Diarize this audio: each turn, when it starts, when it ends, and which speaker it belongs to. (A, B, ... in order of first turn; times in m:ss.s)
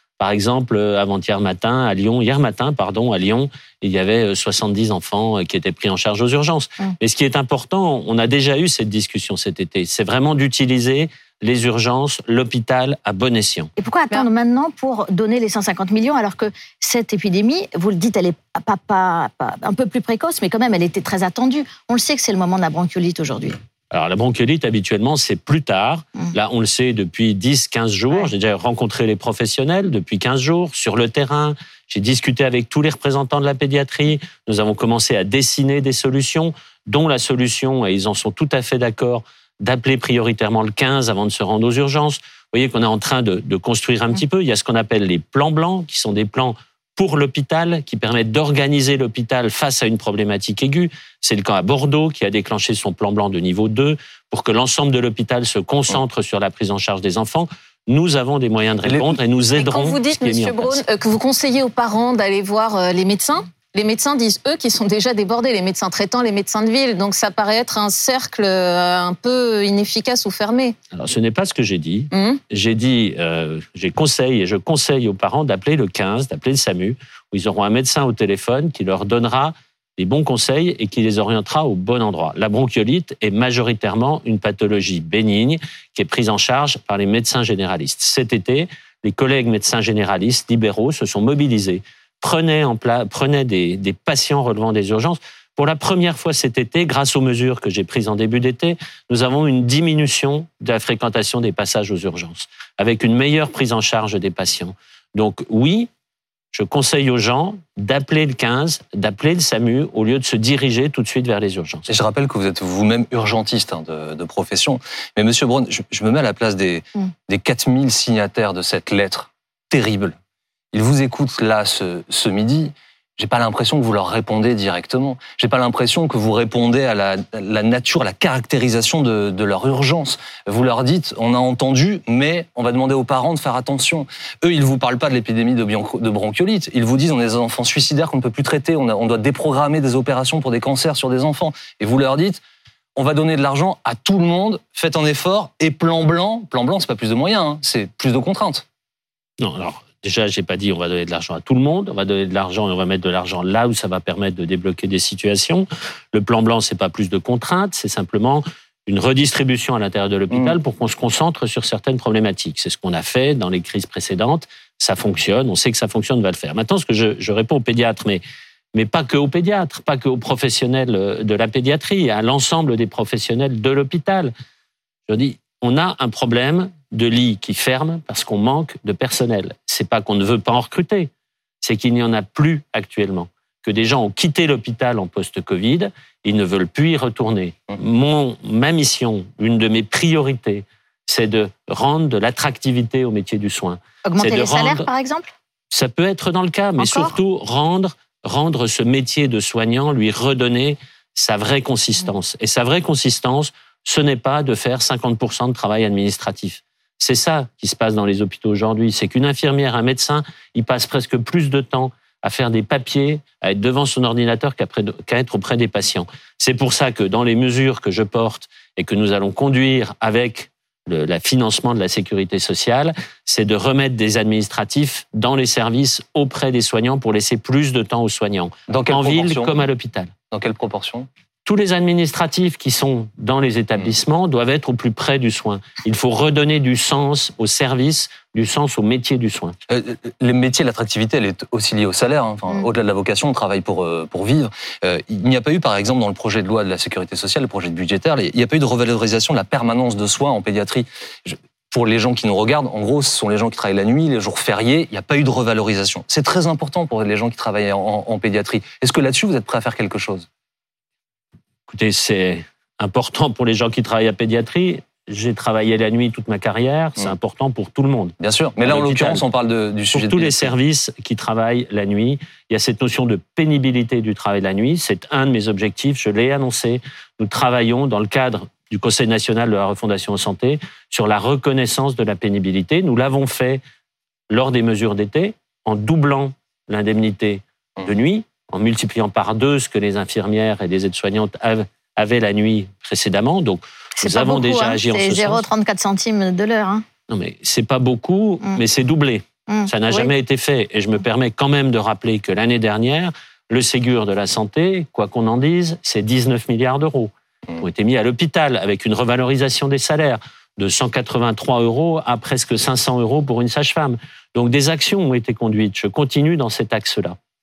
0:00.2-0:13.7 A
0:13.8-0:23.6 B
0:23.9-1:00.8 A
0:58.9-0:59.2 C
0:59.6-1:10.8 D
1:10.9-1:45.9 A
1:12.1-1:12.4 D
1:46.5-1:51.9 A
1:51.9-2:00.2 C
2:00.7-2:22.4 C
2:23.0-2:28.6 C
2:29.4-2:48.2 A
2:48.7-2:54.3 A
2:55.1-3:01.1 A
3:01.6-3:14.9 A
3:14.0-3:15.3 B
3:15.7-3:50.1 A
3:16.8-3:17.1 B
3:48.7-3:49.6 C
3:50.3-3:51.1 C
3:51.4-3:59.6 A
3:59.7-4:20.3 C
4:21.7-4:29.2 A
4:28.2-4:30.5 C
4:29.9-4:43.6 A
4:44.3-4:55.4 A
4:54.0-4:56.8 B
4:57.1-5:17.2 A
4:59.5-5:00.1 B